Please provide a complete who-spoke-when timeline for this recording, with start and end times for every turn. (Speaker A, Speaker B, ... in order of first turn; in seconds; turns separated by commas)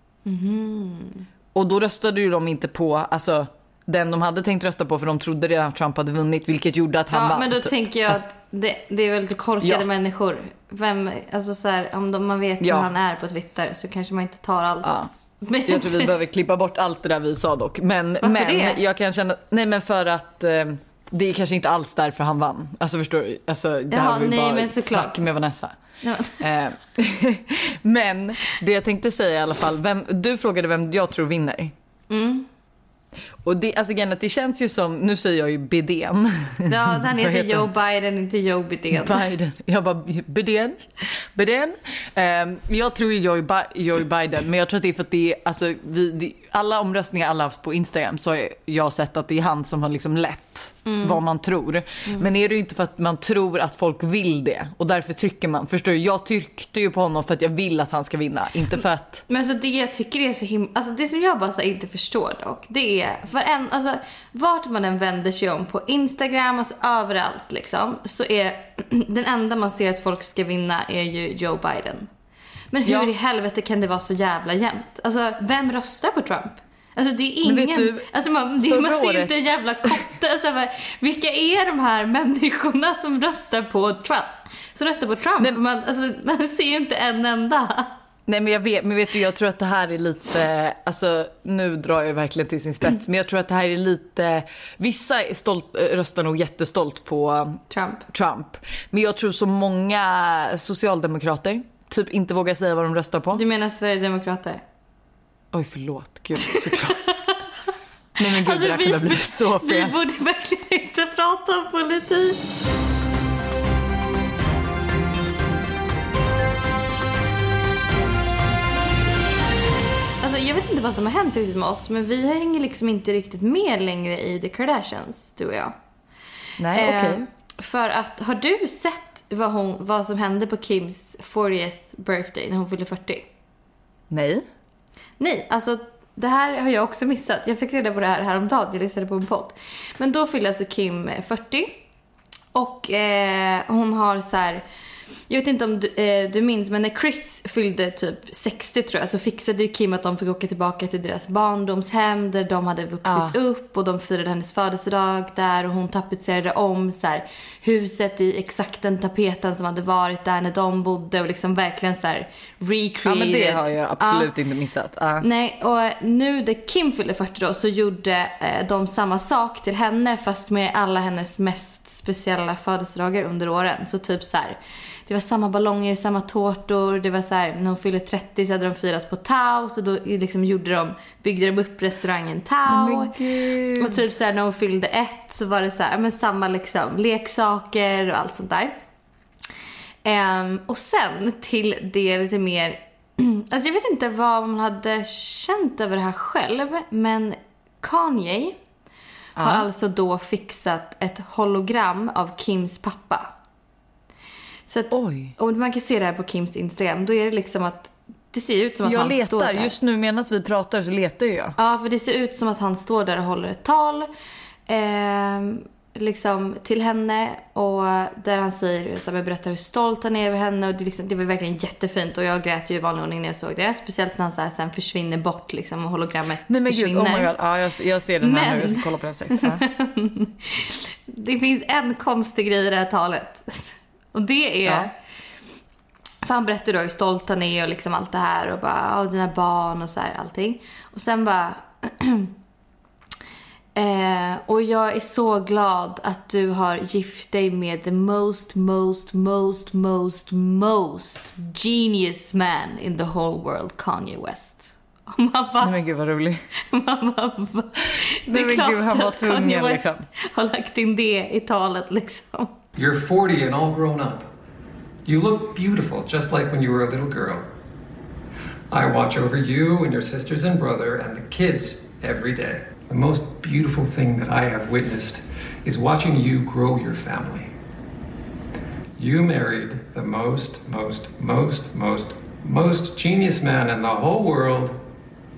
Speaker A: 0.2-1.3, Speaker B: 1.5-8.2, Speaker A: 7.1-16.1, Speaker B: 12.6-12.9, Speaker B: 14.8-15.1, Speaker B: 15.7-25.8, Speaker A: 18.2-18.8, Speaker A: 23.9-25.2, Speaker A: 26.0-26.4, Speaker B: 26.4-31.7, Speaker A: 32.1-32.5, Speaker B: 33.4-37.7, Speaker A: 36.7-39.3, Speaker B: 38.9-59.2, Speaker A: 50.9-51.2, Speaker A: 59.3-72.1, Speaker A: 72.7-87.9, Speaker B: 72.9-73.1, Speaker B: 77.4-78.1, Speaker B: 78.6-79.3, Speaker B: 88.3-103.4, Speaker A: 97.7-98.1, Speaker A: 103.3-104.6, Speaker B: 105.5-107.0, Speaker A: 106.4-107.3, Speaker B: 108.2-110.0, Speaker A: 108.2-112.4, Speaker A: 120.2-125.7, Speaker B: 126.6-127.3, Speaker A: 126.7-133.2, Speaker B: 134.1-134.4, Speaker A: 135.2-141.7, Speaker A: 142.5-144.6, Speaker A: 145.3-164.3, Speaker B: 153.1-153.3, Speaker B: 163.0-165.3, Speaker A: 165.2-183.2, Speaker B: 182.7-184.1, Speaker A: 183.8-188.7, Speaker A: 190.0-198.6, Speaker B: 199.4-199.7, Speaker A: 199.4-203.3, Speaker A: 204.7-209.7, Speaker B: 204.9-205.3, Speaker B: 208.8-211.6, Speaker A: 211.6-214.1, Speaker A: 214.7-227.3, Speaker B: 226.5-229.7, Speaker A: 228.2-234.9, Speaker B: 234.7-234.9, Speaker A: 236.2-242.3, Speaker A: 243.8-255.8, Speaker B: 255.6-256.4, Speaker A: 256.7-262.6, Speaker B: 258.3-260.1, Speaker C: 262.8-264.3, Speaker C: 265.1-267.5, Speaker C: 268.7-277.5, Speaker C: 279.0-284.8